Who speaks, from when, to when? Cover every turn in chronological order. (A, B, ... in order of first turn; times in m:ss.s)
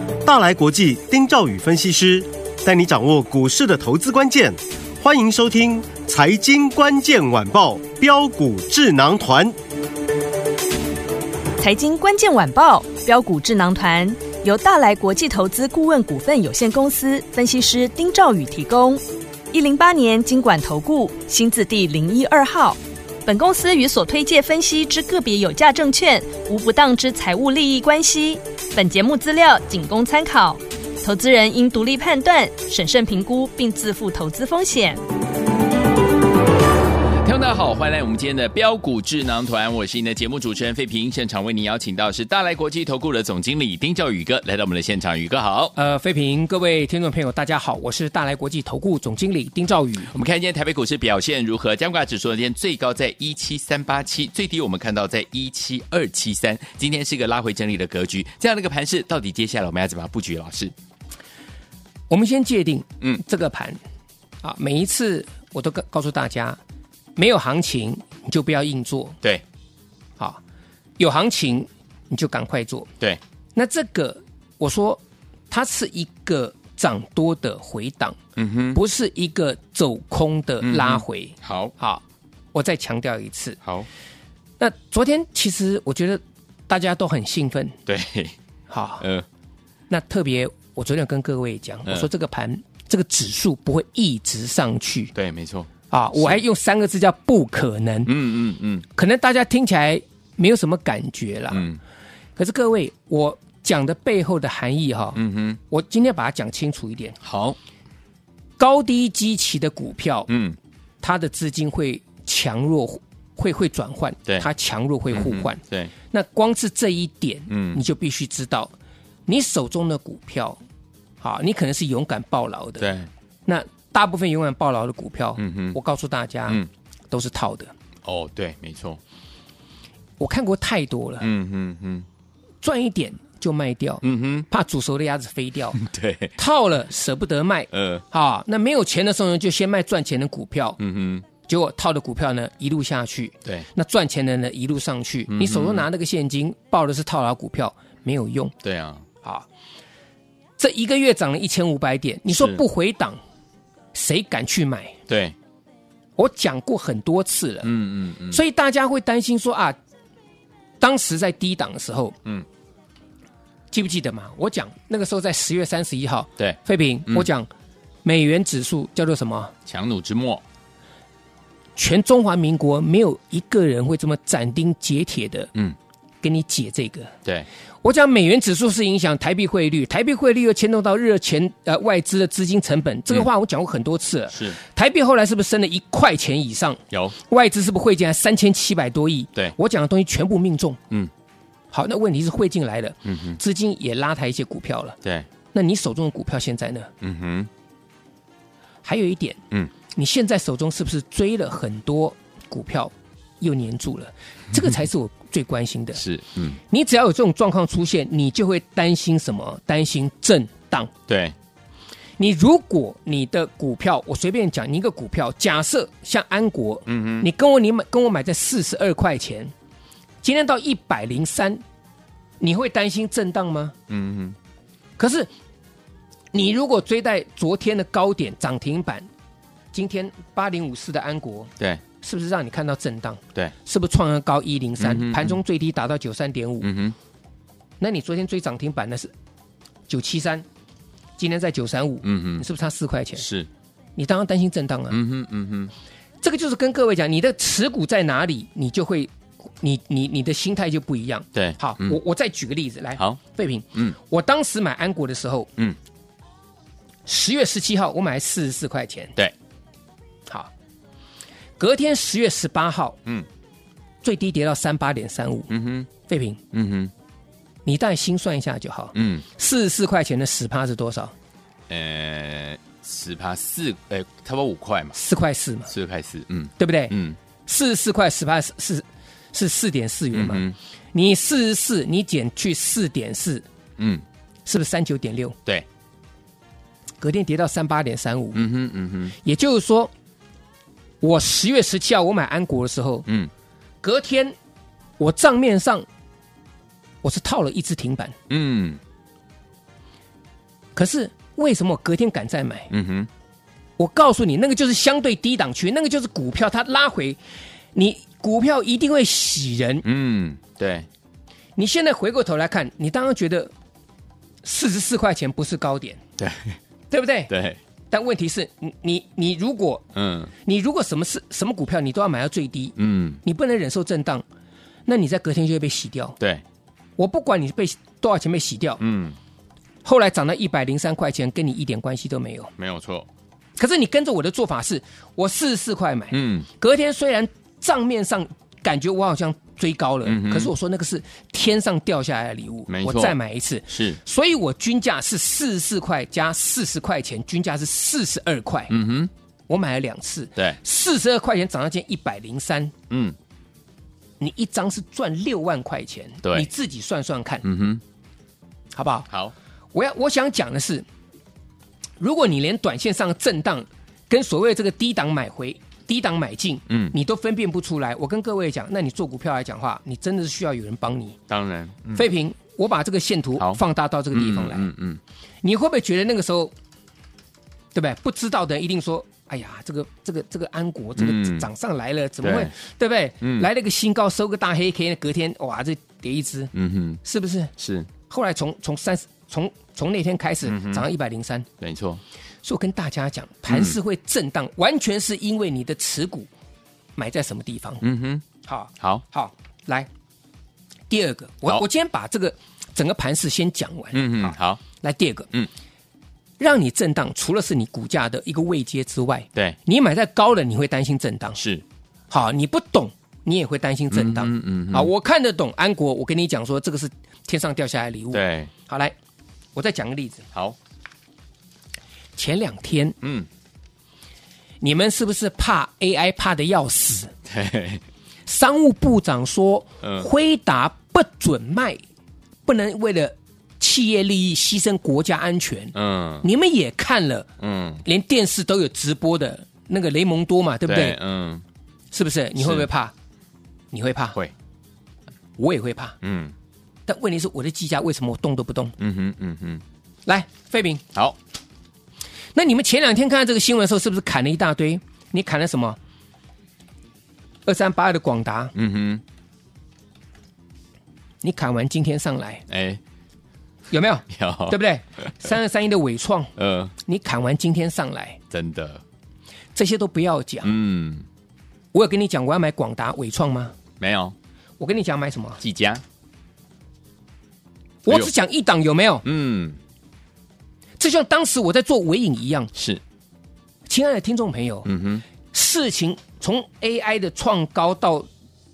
0:00.2-0:09.6 A
0:11.6-0:35.0 B
0:37.2-0:45.7 C
0:45.8-0:50.1 D
0:50.1-1:00.7 C
1:02.1-1:03.8 D
1:04.4-1:06.6 D
1:07.2-1:09.2 D
1:11.0-1:12.9 D
1:13.5-1:18.2 D
1:18.4-1:18.8 C
1:18.7-1:22.0 D
1:20.6-1:21.7 C
1:22.5-1:23.6 D
1:24.6-1:27.8 D
1:27.9-1:28.3 C
1:28.7-1:29.0 D
1:29.0-1:29.2 C
1:29.9-1:35.1 D
1:35.1-1:36.4 C
1:35.9-1:38.1 D
1:38.0-1:38.9 C
1:39.0-1:41.6 D
1:41.5-1:41.8 C
1:42.4-1:47.2 D
1:45.2-1:45.6 C
1:47.2-1:47.6 C
1:48.6-1:50.3 D
1:50.3-1:50.6 C
1:51.0-1:58.7 D
1:55.1-1:55.9 C
1:57.5-1:57.8 C
1:59.3-2:00.6 D
2:01.2-2:02.9 D
2:02.8-2:03.1 C
2:03.4-2:07.7 D
2:05.4-2:05.8 C
2:08.0-2:09.0 C
2:10.2-2:11.3 D
2:11.2-2:12.0 C
2:12.6-2:15.8 D
2:14.0-2:14.5 C
2:15.8-2:16.3 C
2:16.4-2:20.8 D
2:17.7-2:18.0 C
2:20.8-2:21.2 C
2:21.4-2:28.5 D
2:25.3-2:25.8 C
2:28.6-2:29.0 C
2:30.6-2:33.2 D
2:32.3-2:32.6 C
2:33.9-2:35.0 D
2:35.1-2:35.3 C
2:36.2-2:37.7 D
2:37.6-2:38.4 C
2:38.3-2:39.8 D
2:40.8-2:42.2 D
2:43.7-2:47.5 D
2:48.0-2:49.5 D
2:49.7-2:50.4 C
2:51.8-2:55.5 D
2:56.2-2:57.1 D
2:57.8-3:10.8 D
3:04.3-3:04.6 C
3:11.7-3:15.0 D
3:13.0-3:13.4 C
3:15.5-3:16.9 D
3:17.0-3:17.5 C
3:18.8-3:19.4 D
3:19.9-3:26.0 D
3:26.0-3:26.6 C
3:26.7-3:30.9 D
3:31.1-3:31.3 C
3:32.2-3:39.5 D
3:36.9-3:37.3 C
3:40.2-3:41.6 D
3:42.4-3:43.7 D
3:43.9-3:44.4 C
3:45.0-3:45.3 D
3:46.3-3:49.1 D
3:49.7-3:56.7 D
3:54.8-3:55.4 C
3:56.6-3:57.0 C
3:57.8-3:59.1 D
3:59.9-4:00.4 D
4:01.2-4:03.2 D
4:02.0-4:02.4 C
4:03.2-4:03.5 C
4:04.0-4:05.0 D
4:04.9-4:05.7 C
4:06.2-4:15.5 D
4:11.3-4:12.0 C
4:17.0-4:19.1 D
4:21.6-4:23.0 D
4:24.0-4:25.5 D
4:25.5-4:25.9 C
4:26.0-4:26.4 D
4:26.5-4:26.9 C
4:27.6-4:31.1 D
4:28.9-4:29.2 C
4:31.7-4:35.0 C
4:34.9-4:35.7 D
4:35.7-4:37.2 C
4:36.6-4:36.9 D
4:37.4-4:40.4 D
4:40.1-4:40.6 C
4:40.9-4:43.4 D
4:43.8-4:44.0 C
4:44.4-4:45.4 D
4:47.0-4:48.4 D
4:48.3-4:49.2 C
4:49.2-4:49.9 D
4:51.0-4:53.0 D
4:53.8-4:54.4 D
4:55.0-4:55.8 D
4:57.0-4:58.1 D
4:58.3-4:58.8 C
5:00.7-5:02.7 D
5:02.7-5:03.1 C
5:03.8-5:07.2 D
5:07.7-5:09.8 D
5:09.8-5:10.9 C
5:11.6-5:13.5 D
5:14.4-5:16.0 D
5:16.2-5:16.6 C
5:16.9-5:17.3 D
5:17.3-5:17.6 C
5:17.9-5:19.8 D
5:19.9-5:20.3 C
5:20.4-5:24.2 D
5:22.8-5:23.2 C
5:24.9-5:26.2 D
5:27.0-5:28.8 D
5:28.8-5:29.2 C
5:29.8-5:32.5 D
5:32.6-5:33.1 C
5:33.6-5:48.7 D
5:36.1-5:36.5 C
5:40.0-5:40.5 C
5:42.7-5:43.2 C
5:43.7-5:44.0 C
5:48.7-5:49.1 C
5:49.5-5:52.7 D
5:52.9-5:53.2 C
5:54.2-5:57.4 D
5:56.2-5:56.5 C
5:57.4-5:57.8 C
5:58.7-5:59.1 D
5:59.7-6:00.8 D
6:02.0-6:11.2 D
6:06.7-6:06.9 C
6:11.3-6:12.1 C
6:11.9-6:14.7 D
6:14.1-6:15.0 C
6:15.4-6:16.5 D
6:17.7-6:26.5 D
6:21.0-6:21.5 C
6:22.2-6:22.5 C
6:23.2-6:23.5 C
6:26.5-6:27.0 C
6:27.0-6:27.5 D
6:27.6-6:27.9 C
6:28.1-6:31.5 D
6:30.4-6:30.8 C
6:31.6-6:32.0 C
6:32.4-6:36.3 D
6:33.5-6:33.8 C
6:37.0-6:37.8 D
6:37.8-6:38.2 C
6:38.4-6:39.9 D
6:40.9-6:45.3 D
6:43.9-6:44.6 C
6:46.4-6:51.4 D
6:51.4-6:51.6 C
6:52.1-6:58.9 D
6:53.9-6:54.9 C
6:58.1-6:58.5 C
6:59.5-7:00.2 D
7:02.2-7:03.0 D
7:03.0-7:03.3 C
7:04.6-7:07.1 D
7:07.3-7:07.8 C
7:08.2-7:11.8 D
7:09.8-7:10.1 C
7:12.4-7:17.3 D
7:15.7-7:16.2 C
7:17.4-7:17.8 C
7:17.8-7:21.0 D
7:20.7-7:21.4 C
7:21.9-7:22.9 D
7:22.4-7:22.6 C
7:23.7-7:24.2 D
7:25.4-7:26.0 D
7:26.0-7:26.3 C
7:26.9-7:28.7 D
7:28.8-7:29.6 C
7:30.0-7:30.8 D
7:32.3-7:35.8 D
7:37.4-7:38.5 D
7:38.5-7:39.0 C
7:41.2-7:42.4 D
7:42.5-7:42.8 C
7:43.7-7:48.2 D
7:44.1-7:45.1 C
7:46.4-7:46.7 C
7:48.3-7:48.8 C
7:49.5-7:50.5 D
7:50.4-7:51.0 C
7:51.7-7:53.5 D
7:53.8-7:54.1 C
7:54.6-7:55.4 D
7:55.4-7:55.8 C
7:57.8-7:59.0 D
7:59.0-7:59.6 C
8:00.8-8:02.5 D
8:02.5-8:02.8 C
8:03.7-8:04.7 D
8:04.6-8:05.0 C
8:05.3-8:08.1 D